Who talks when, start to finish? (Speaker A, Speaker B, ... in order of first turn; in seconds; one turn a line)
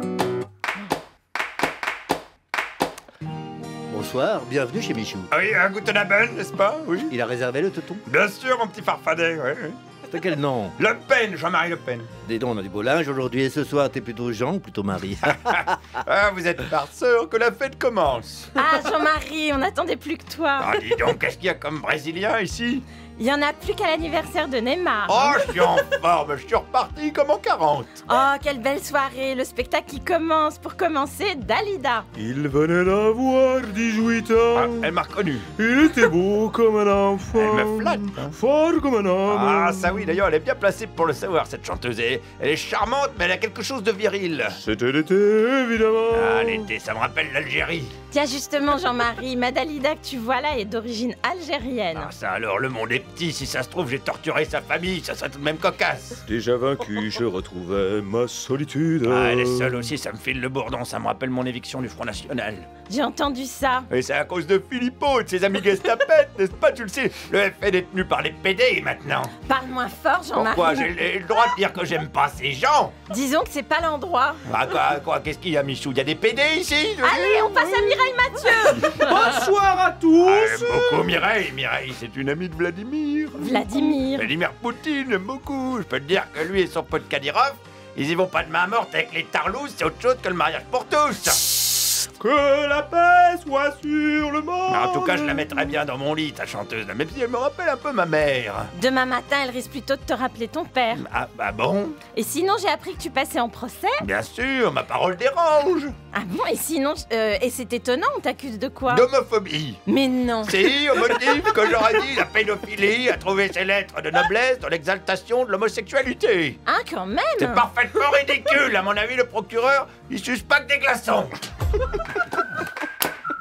Speaker A: 3.9-5.3
Speaker B: 5.3-7.1
Speaker A: 7.1-8.0
Speaker B: 8.1-9.8
Speaker A: 10.1-10.7
Speaker B: 10.8-12.1
Speaker A: 12.2-15.9
Speaker B: 15.3-18.5
Speaker C: 18.6-20.8
Speaker B: 20.6-22.8
Speaker C: 23.2-25.5
Speaker B: 25.1-28.0
Speaker C: 28.1-32.1
Speaker D: 32.2-34.9
Speaker B: 34.5-35.5
Speaker D: 35.5-40.2
Speaker B: 37.3-38.3
Speaker B: 39.3-44.6
Speaker D: 44.5-46.7
Speaker B: 46.1-47.9
Speaker C: 48.1-52.1
Speaker B: 51.9-56.2
Speaker D: 56.2-59.9
Speaker B: 59.0-62.7
Speaker C: 62.9-63.9
Speaker B: 63.9-69.3
Speaker C: 69.4-70.9
Speaker B: 70.3-72.9
Speaker C: 73.1-74.4
Speaker B: 74.5-78.0
Speaker C: 77.0-79.1
Speaker D: 78.8-81.2
Speaker B: 80.2-91.9
Speaker C: 83.4-84.3
Speaker D: 91.9-95.8
Speaker B: 94.7-98.7
Speaker C: 98.7-101.0
Speaker B: 100.9-102.0
Speaker C: 102.1-104.0
Speaker B: 104.0-105.9
Speaker C: 106.1-109.1
Speaker B: 108.9-109.8
Speaker C: 109.8-111.1
Speaker B: 110.4-116.6
Speaker C: 116.7-117.6
Speaker B: 117.4-121.4